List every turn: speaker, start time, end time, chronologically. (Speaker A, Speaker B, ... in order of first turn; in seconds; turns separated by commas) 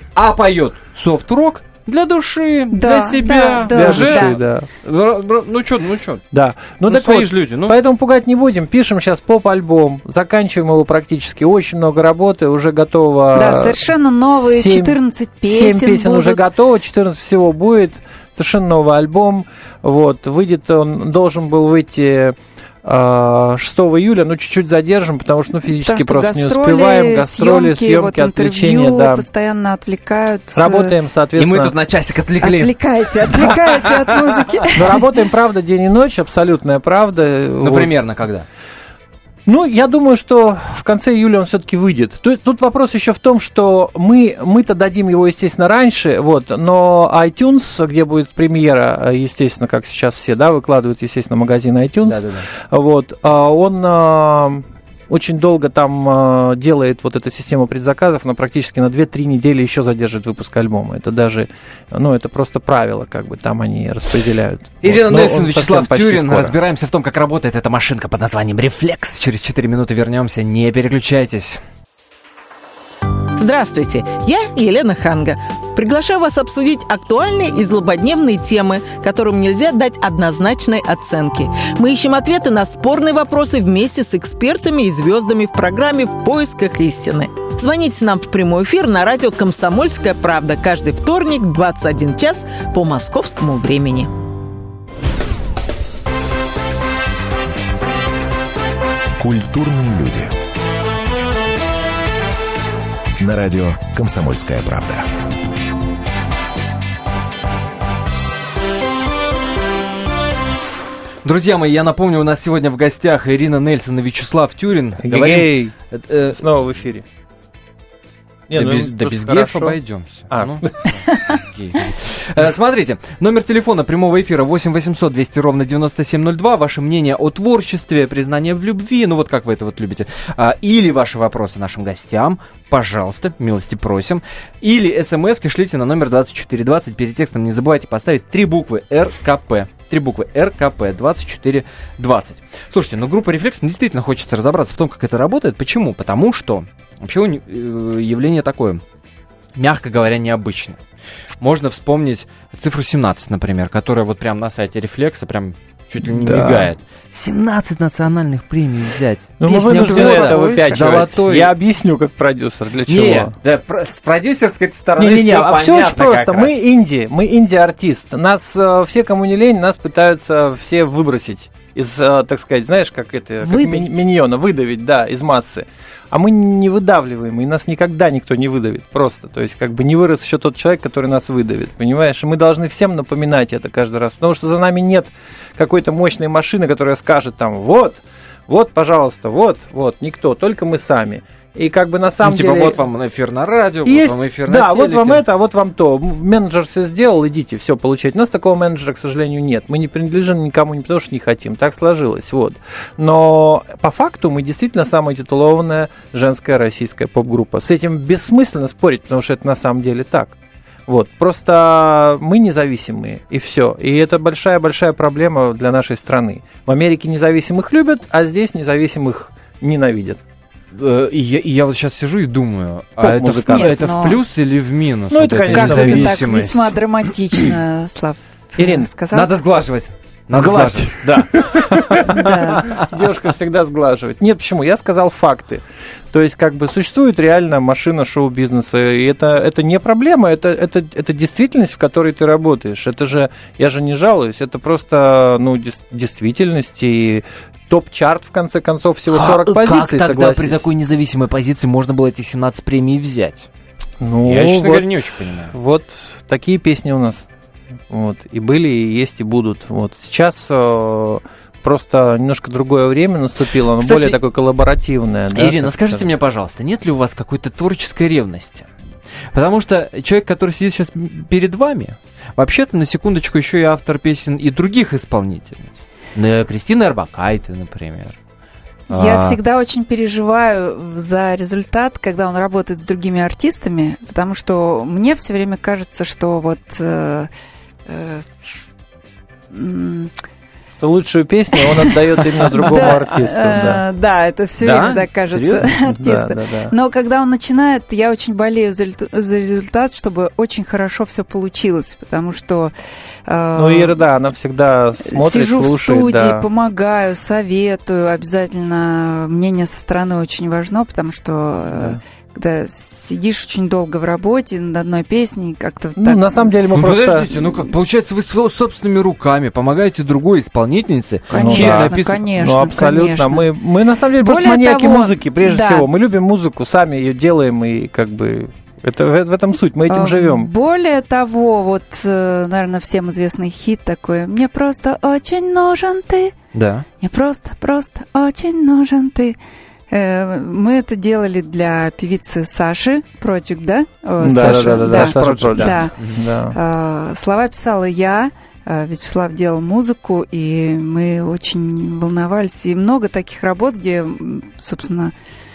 Speaker A: 0.1-6.2, Speaker B: 2.7-4.3, Speaker C: 3.6-4.7, Speaker C: 6.3-29.2, Speaker A: 6.8-7.8, Speaker B: 13.3-16.4, Speaker B: 25.7-30.9, Speaker C: 30.5-31.7, Speaker A: 31.4-34.2, Speaker B: 32.4-35.0, Speaker C: 34.7-37.9, Speaker A: 37.6-38.5, Speaker C: 39.5-66.6, Speaker A: 52.0-52.5, Speaker A: 64.8-71.6, Speaker D: 73.4-94.1, Speaker E: 99.2-100.3, Speaker E: 103.2-105.1, Speaker A: 111.2-116.4, Speaker C: 115.0-115.8, Speaker C: 116.3-117.0, Speaker C: 118.5-119.8, Speaker A: 118.5-148.8, Speaker C: 120.3-120.9, Speaker A: 149.6-150.8, Speaker A: 151.4-161.5, Speaker C: 156.0-156.7, Speaker C: 159.4-163.3, Speaker B: 159.8-160.8, Speaker A: 162.9-166.6, Speaker C: 165.0-192.8, Speaker B: 173.4-173.8, Speaker A: 192.2-195.2, Speaker C: 193.8-220.2, Speaker A: 220.7-226.8, Speaker C: 223.0-223.8, Speaker B: 223.5-224.2, Speaker C: 225.1-226.3, Speaker B: 225.5-229.3, Speaker C: 228.6-228.9, Speaker A: 229.1-232.8, Speaker C: 230.3-250.6, Speaker B: 232.0-232.6, Speaker A: 249.1-253.5, Speaker C: 254.0-257.3, Speaker A: 254.2-255.5, Speaker C: 257.9-266.1, Speaker A: 263.8-264.2, Speaker A: 265.3-268.7, Speaker A: 269.3-278.2, Speaker B: 278.9-287.3, Speaker A: 278.9-279.4, Speaker B: 287.9-288.6, Speaker B: 289.5-290.1, Speaker C: 290.8-293.8, Speaker B: 292.5-302.7, Speaker A: 294.6-295.6, Speaker C: 295.8-296.7, Speaker B: 303.2-304.0, Speaker C: 303.6-306.5, Speaker B: 305.0-316.6, Speaker C: 311.7-312.0, Speaker C: 315.9-317.3, Speaker A: 316.7-322.1, Speaker B: 321.3-323.5, Speaker C: 321.3-330.5, Speaker B: 324.2-325.9, Speaker B: 329.9-336.3, Speaker A: 336.5-336.8, Speaker B: 337.0-339.4, Speaker B: 339.9-345.9, Speaker C: 344.2-346.6, Speaker A: 344.3-346.2, Speaker B: 346.5-355.1